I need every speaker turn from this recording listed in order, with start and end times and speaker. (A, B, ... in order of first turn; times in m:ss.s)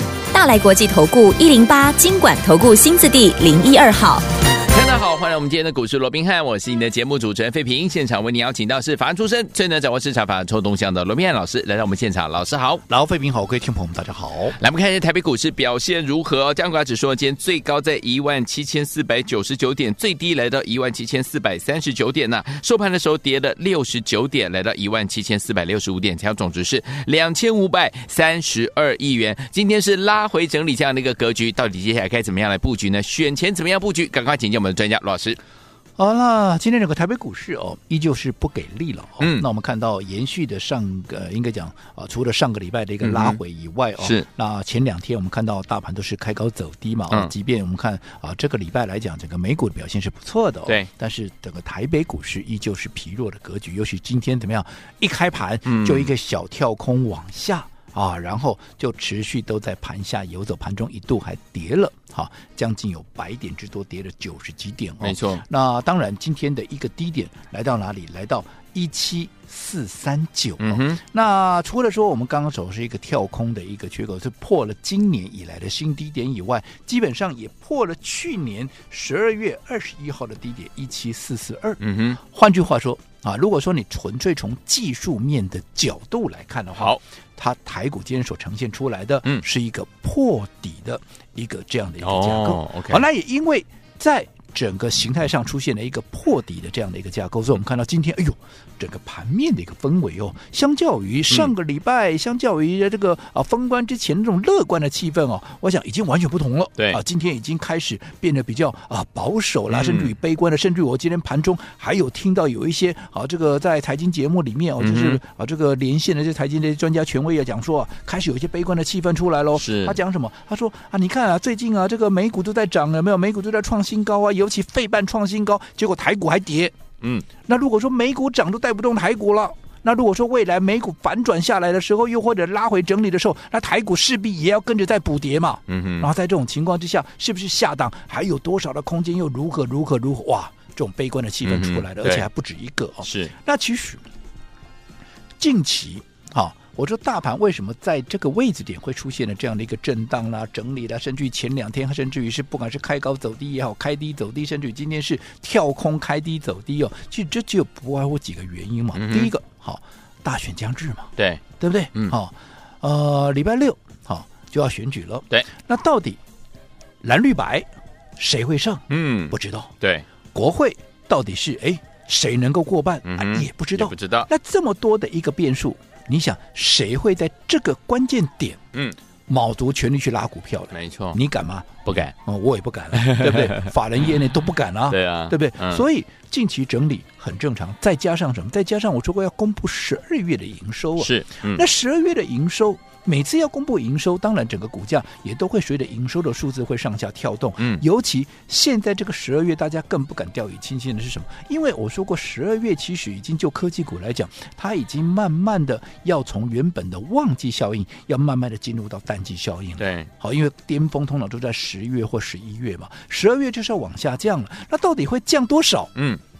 0:00.3-0:04.2 A
0:04.6-0:12.8 B
0:12.9-0:14.6 C
0:14.6-0:35.4 B
0:36.0-2:06.7 C
0:39.2-0:39.4 B
0:43.0-0:43.4 B
0:44.0-0:44.2 B
0:55.6-0:56.1 B
1:05.0-1:05.4 B
1:10.6-1:11.0 B
1:21.8-1:22.2 B
1:32.0-1:33.0 B
1:49.7-1:50.1 B
1:54.8-1:55.2 B
1:59.5-2:00.0 B
2:07.0-2:07.3 B
2:07.4-2:24.0 C
2:15.7-2:16.1 B
2:21.4-2:22.2 B
2:23.0-2:23.3 B
2:25.4-2:46.2 C
2:38.9-2:39.3 B
2:41.2-2:41.4 B
2:47.0-2:49.7 C
2:48.9-2:50.0 B
2:50.3-2:58.6 C
2:53.0-2:54.3 B
2:59.3-3:35.9 C
3:00.7-3:01.2 B
3:01.8-3:02.1 B
3:02.9-3:03.7 B
3:04.9-3:05.8 B
3:11.0-3:11.6 B
3:29.8-3:30.1 B
3:35.9-3:36.2 B